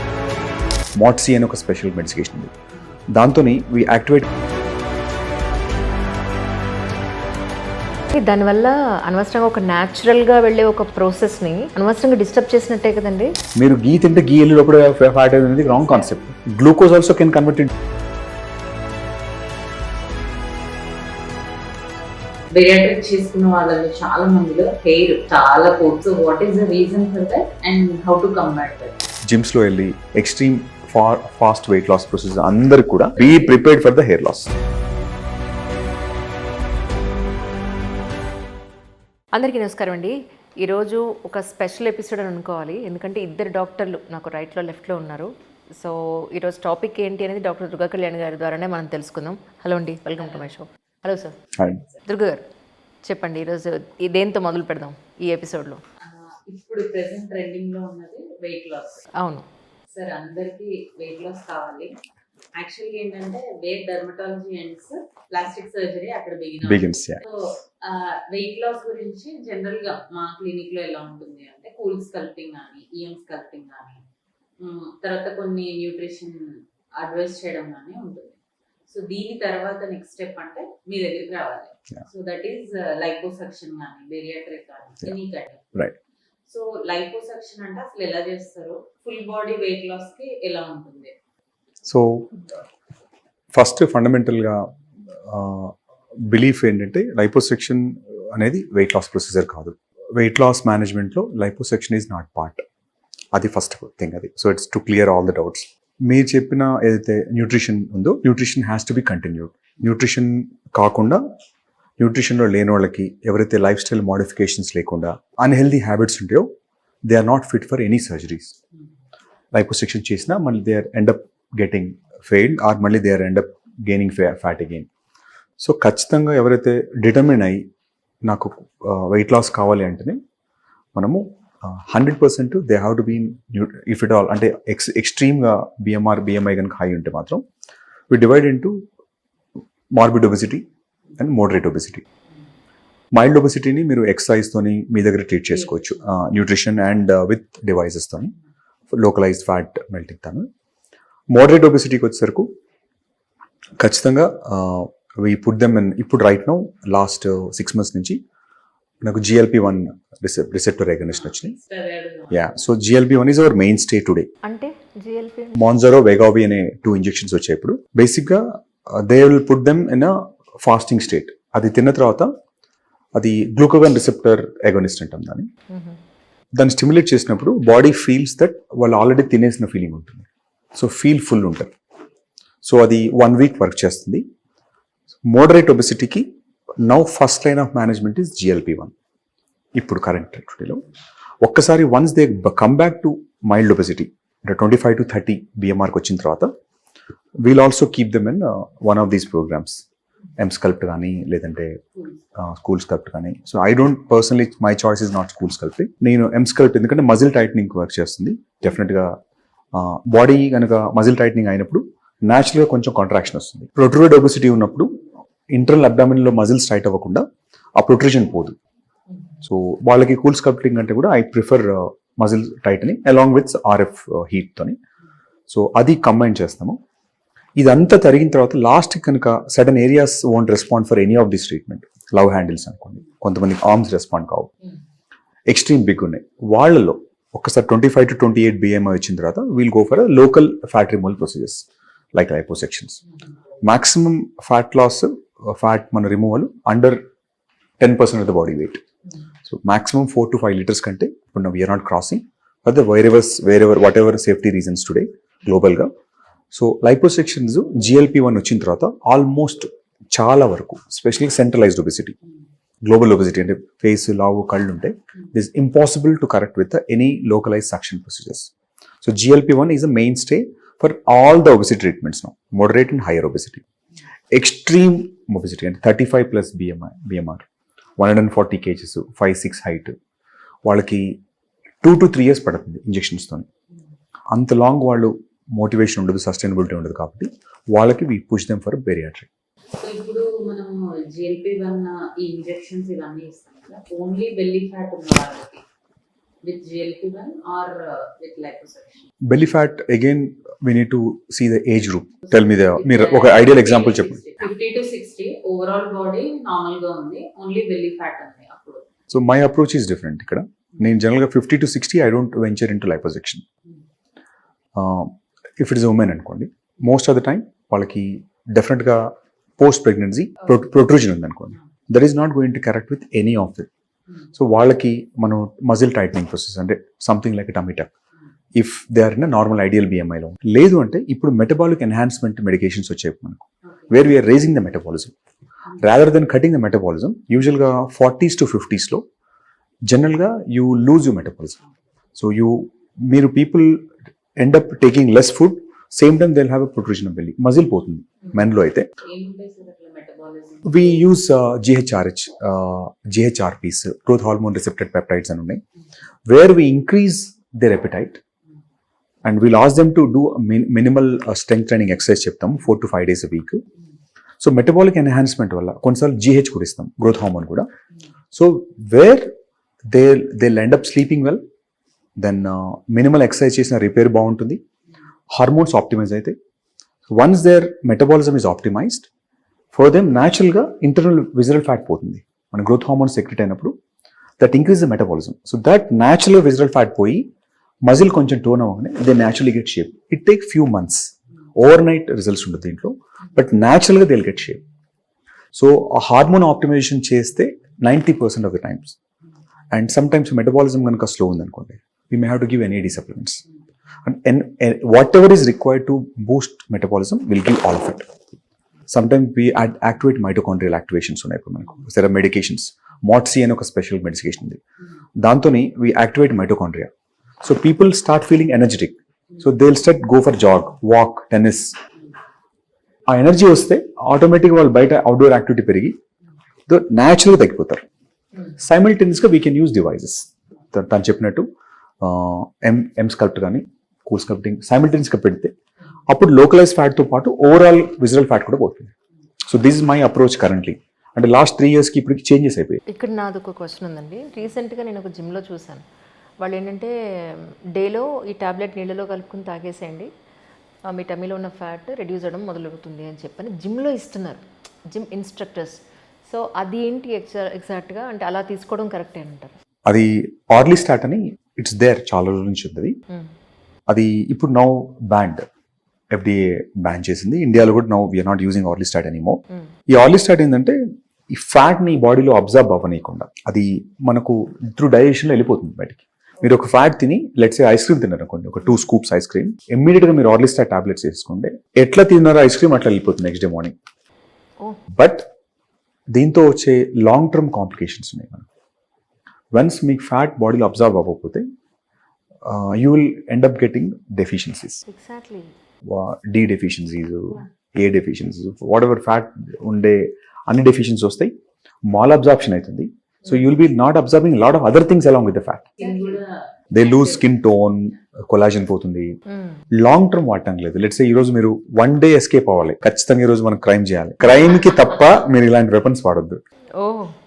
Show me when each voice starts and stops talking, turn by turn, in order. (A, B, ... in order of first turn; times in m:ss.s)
0:01.0-0:02.5 A
0:03.1-0:04.3 A
0:08.1-0:13.4 B
0:13.6-0:17.7 A
0:15.8-0:16.2 C
0:22.5-0:29.0 C
0:29.2-0:34.5 A
0:33.2-0:33.5 C
0:39.3-0:51.4 B
0:50.2-0:50.5 C
0:51.6-0:51.8 A
0:52.0-0:52.4 B
0:53.0-0:55.8 B
0:56.1-0:59.1 C
0:59.2-0:59.5 B
0:59.9-1:02.0 C
1:02.6-1:14.0 C
1:06.6-1:07.2 A
1:14.6-1:18.4 C
1:18.9-1:25.7 C
1:26.5-1:31.1 C
1:31.8-1:32.4 A
1:33.5-1:42.6 A
1:43.3-1:51.2 A
1:52.0-1:56.5 A
1:57.0-1:58.6 A
1:59.5-2:04.9 A
2:05.6-2:07.6 A
2:08.3-2:10.2 A
2:11.0-2:17.4 A
2:18.1-2:18.8 A
2:20.0-2:20.6 A
2:21.2-2:22.0 A
2:23.2-2:28.4 A
2:25.7-2:26.0 C
2:28.9-2:30.5 A
2:31.3-2:32.5 A
2:33.8-2:38.2 A
2:39.0-2:41.6 A
2:41.1-2:42.6 C
2:42.3-2:44.3 A
2:44.4-2:45.6 B
2:45.6-2:52.3 A
2:53.2-2:55.5 A
2:55.7-2:56.0 B
2:56.5-3:01.7 A
3:02.6-3:04.2 A
3:05.2-3:06.3 A
3:06.8-3:08.9 A
3:09.8-3:10.8 A
3:11.4-3:16.5 A
3:17.4-3:19.8 A
3:20.4-3:21.8 A
3:22.4-3:29.2 A
3:29.7-3:34.9 A
3:35.5-3:37.2 A
3:37.8-3:38.6 A
3:39.4-3:44.8 A
3:45.5-3:46.8 A
3:47.6-3:54.5 A
3:55.5-4:03.0 A
4:03.6-4:07.0 A
4:07.8-4:08.8 A
4:09.4-4:15.9 A
4:16.5-4:22.2 A
4:22.8-4:28.5 A
4:29.0-4:33.6 A
4:34.3-4:37.5 A
4:38.0-4:40.0 A
4:40.6-4:41.2 A
4:41.8-4:43.5 A
4:44.3-4:49.3 A
4:49.8-4:55.6 C
4:56.4-4:59.1 C
4:59.3-5:04.3 A
5:02.3-5:08.9 C
5:09.1-5:13.4 A
5:14.8-5:23.7 A
5:24.4-5:27.9 A
5:28.6-5:35.2 A
5:35.8-5:39.0 A
5:39.9-5:41.6 A
5:42.2-5:43.9 A
5:44.4-5:48.9 A
5:49.0-5:51.1 C
5:50.6-5:55.6 A
5:56.3-5:58.2 A
5:59.2-6:03.6 A
6:04.4-6:07.7 A
6:08.3-6:09.3 A
6:09.9-6:11.4 A
6:12.2-6:14.6 A
6:15.3-6:16.4 A
6:17.1-6:19.1 A
6:19.7-6:23.7 A
6:24.4-6:27.3 A
6:27.9-6:34.6 A
6:35.5-6:39.0 A
6:39.7-6:43.4 A
6:44.0-6:48.1 A
6:48.9-6:54.6 A
6:55.2-6:56.9 A
6:57.4-7:01.8 A
7:03.1-7:06.0 A
7:06.7-7:07.8 A
7:08.6-7:11.5 A
7:12.0-7:15.5 A
7:16.1-7:18.9 A
7:19.5-7:22.8 A
7:22.9-7:25.8 B
7:26.4-7:30.1 B
7:30.9-7:39.6 B
7:39.9-7:43.0 A
7:43.9-7:45.5 A
7:46.1-7:50.8 A
7:51.3-8:03.8 A
8:04.9-8:05.3 A
8:06.1-8:08.4 A
8:09.5-8:11.4 A
8:12.4-8:14.8 A
8:14.9-8:15.5 B
8:15.8-8:21.3 A
8:21.9-8:25.7 A
8:25.8-8:27.3 C
8:26.7-8:29.1 A
8:29.3-8:29.6 B
8:29.8-8:36.4 A
8:36.8-8:37.1 B